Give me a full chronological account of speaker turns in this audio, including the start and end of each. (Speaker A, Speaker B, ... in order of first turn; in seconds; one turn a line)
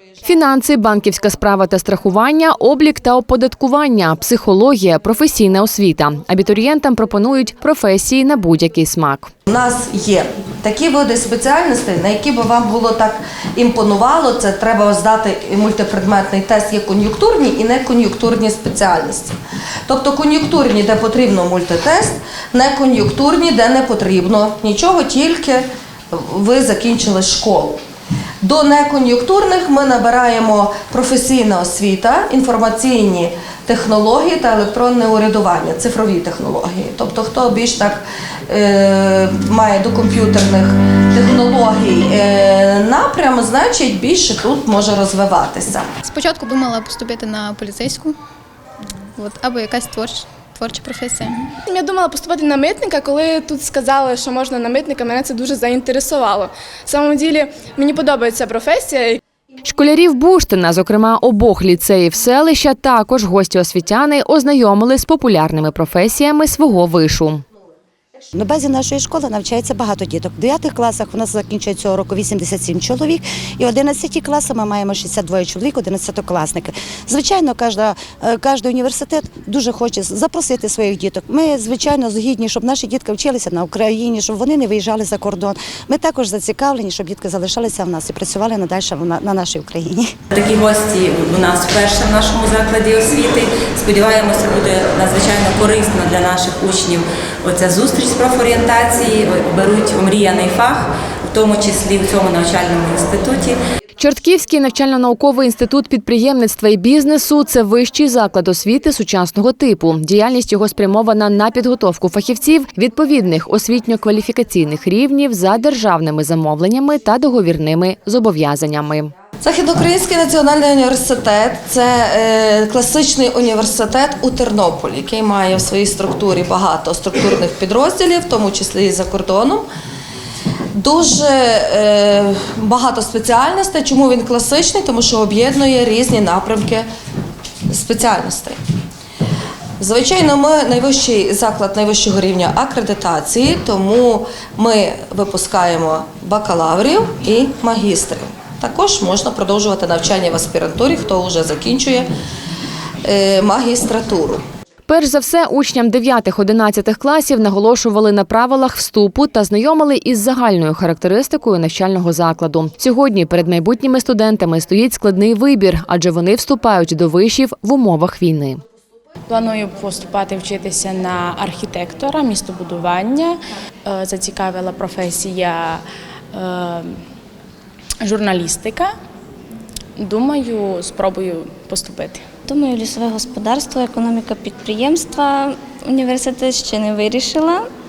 Speaker A: 0.2-9.3
Speaker B: 9.4-19.4
Speaker B: 19.9-27.8
Speaker B: 28.4-45.9
Speaker C: 46.0-48.1
Speaker C: 49.2-51.5
Speaker D: 51.6-59.2
Speaker A: 59.6-67.4
Speaker E: 68.3-90.1
Speaker F: 90.3-103.6
Speaker A: 104.0-119.1
Speaker B: 119.4-129.6
Speaker B: 130.7-136.9
Speaker B: 137.7-138.6
Speaker B: 139.8-152.1
Speaker B: 153.0-154.4
Speaker A: 154.9-168.6
Speaker G: 169.3-177.0
Speaker G: 178.0-178.9
Speaker G: 180.0-182.2
Speaker H: 182.5-187.7